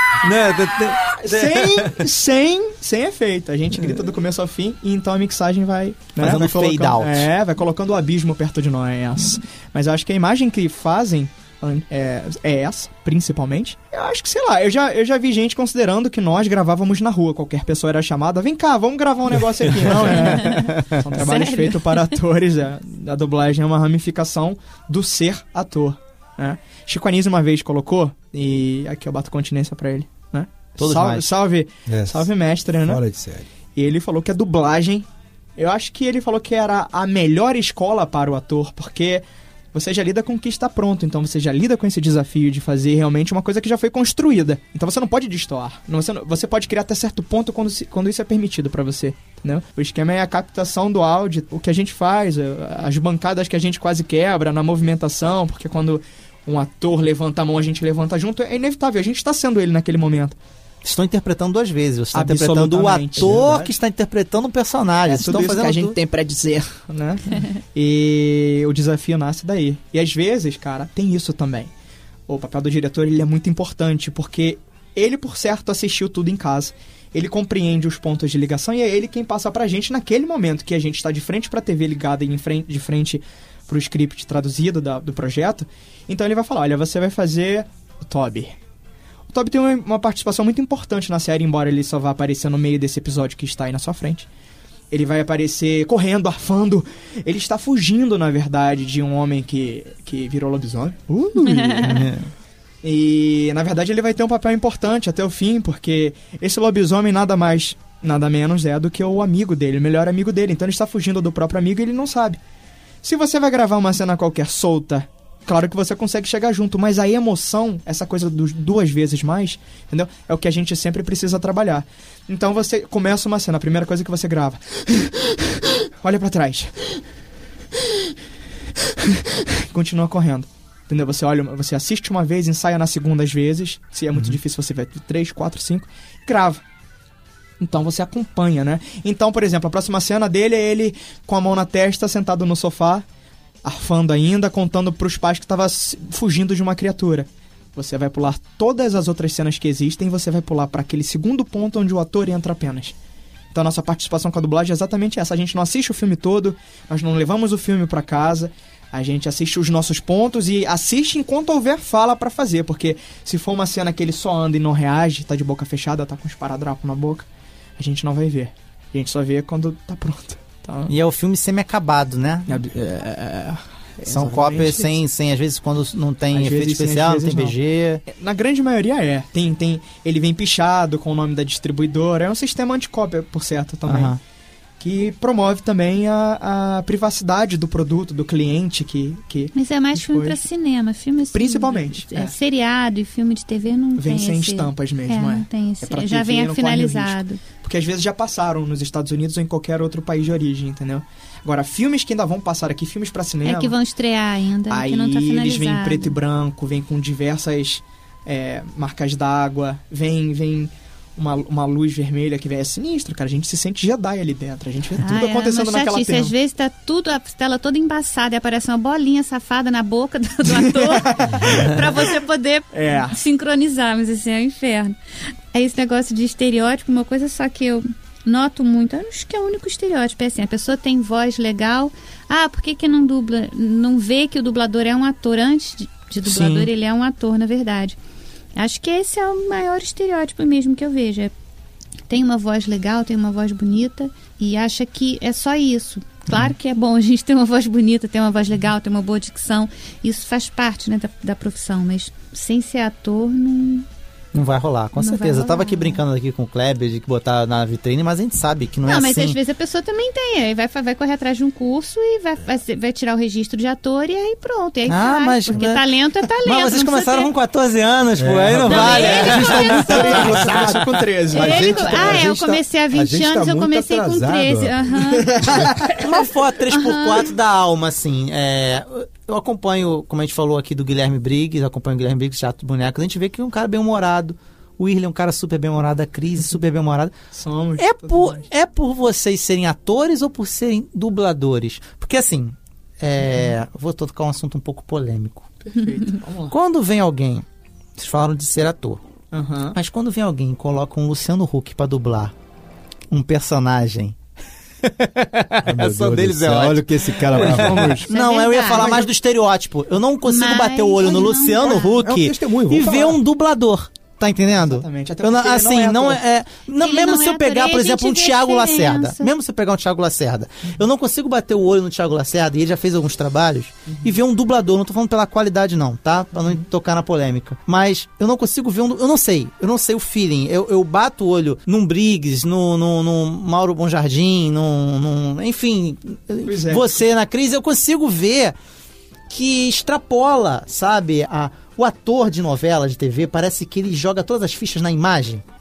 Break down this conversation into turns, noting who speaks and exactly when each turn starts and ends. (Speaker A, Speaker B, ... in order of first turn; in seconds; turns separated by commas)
Speaker A: 0.2-2.0, Speaker B: 1.1-33.0, Speaker A: 6.2-7.3, Speaker A: 19.8-20.9, Speaker C: 20.2-22.0, Speaker A: 30.8-31.3, Speaker D: 31.9-32.3, Speaker D: 32.8-33.5, Speaker B: 33.7-60.4, Speaker A: 60.8-66.0, Speaker B: 62.1-63.7, Speaker D: 63.1-63.7, Speaker B: 65.0-71.7, Speaker B: 72.3-88.5, Speaker B: 89.3-94.3, Speaker B: 94.9-102.1, Speaker A: 101.8-102.3, Speaker B: 102.8-112.4, Speaker B: 113.0-125.4, Speaker B: 126.0-127.0, Speaker B: 129.0-136.6, Speaker B: 137.6-143.0, Speaker B: 143.6-152.9, Speaker B: 153.5-167.3, Speaker B: 167.8-170.9, Speaker A: 170.9-172.5, Speaker B: 172.5-175.0, Speaker A: 174.1-178.0, Speaker B: 176.3-177.6, Speaker B: 178.1-184.2, Speaker A: 183.8-184.2, Speaker B: 184.8-190.4, Speaker C: 189.5-197.4, Speaker B: 191.3-192.3, Speaker B: 193.9-203.8, Speaker C: 203.4-206.2, Speaker B: 204.7-216.3, Speaker C: 215.0-224.9, Speaker B: 220.5-221.7, Speaker B: 222.7-223.2, Speaker C: 225.5-238.0, Speaker B: 236.2-236.7, Speaker C: 238.6-241.3, Speaker C: 242.1-253.8, Speaker A: 254.3-259.4, Speaker C: 255.0-256.0, Speaker C: 258.8-267.3, Speaker A: 264.9-265.9, Speaker A: 266.4-270.4, Speaker D: 268.2-275.7, Speaker C: 268.7-270.3, Speaker B: 269.2-272.2, Speaker C: 271.3-275.3, Speaker B: 275.2-276.0, Speaker A: 276.0-287.1, Speaker C: 276.7-277.2, Speaker B: 287.3-288.4, Speaker A: 287.8-295.5, Speaker B: 293.2-293.5, Speaker B: 295.7-296.5, Speaker A: 296.5-297.4, Speaker A: 298.0-299.0, Speaker B: 299.3-299.8, Speaker A: 299.7-302.3, Speaker A: 303.1-304.1, Speaker A: 305.2-338.6, Speaker D: 305.6-308.0, Speaker B: 307.4-308.1, Speaker C: 308.1-309.0, Speaker B: 308.7-309.1, Speaker C: 310.2-311.9, Speaker D: 311.9-313.2, Speaker B: 314.6-316.2, Speaker C: 316.8-319.3, Speaker B: 323.9-324.2, Speaker B: 336.4-337.0, Speaker A: 339.3-345.4